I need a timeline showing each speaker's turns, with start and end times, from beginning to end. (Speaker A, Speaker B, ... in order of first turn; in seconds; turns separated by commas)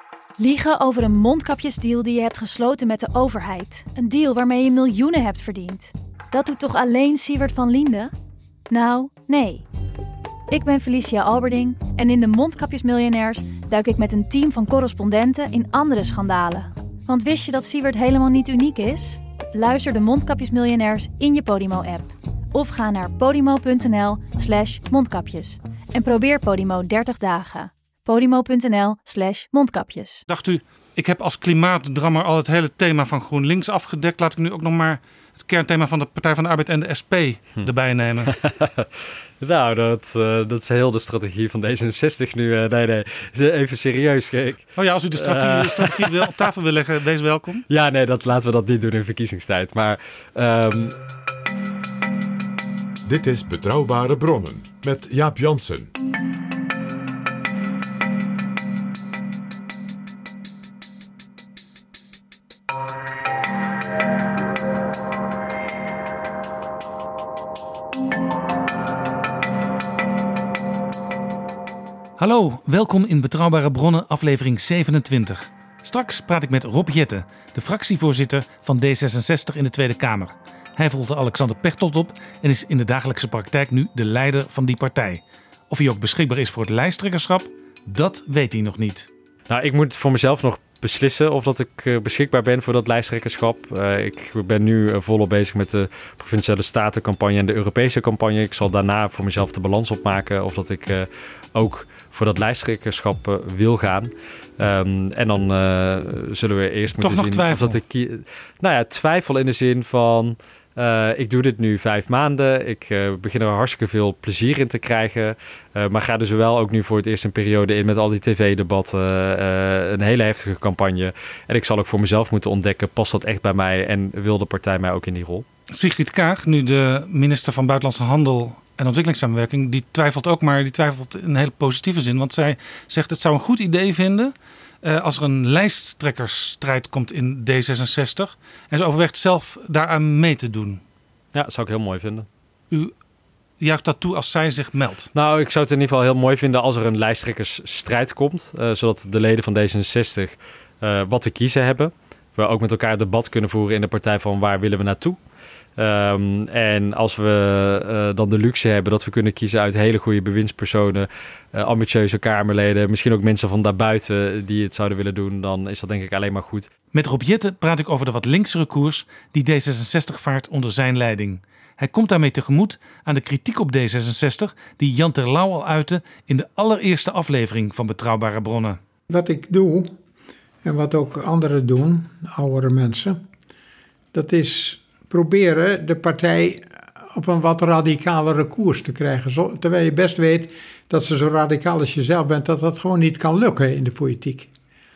Speaker A: 0.4-8.1, Speaker A: 8.7-9.7, Speaker A: 10.5-30.2, Speaker B: 30.3-38.3, Speaker C: 38.3-38.9, Speaker C: 39.4-46.2, Speaker B: 44.8-47.7, Speaker C: 47.7-51.0, Speaker D: 53.1-55.9, Speaker B: 72.2-89.1, Speaker C: 89.5-125.5, Speaker B: 107.0-107.8, Speaker B: 125.7-140.8, Speaker C: 141.3-142.3, Speaker B: 143.6-145.1, Speaker C: 145.1-155.2, Speaker C: 155.8-166.7, Speaker B: 166.9-178.8, Speaker E: 179.1-180.0, Speaker E: 180.6-183.2, Speaker E: 184.1-194.5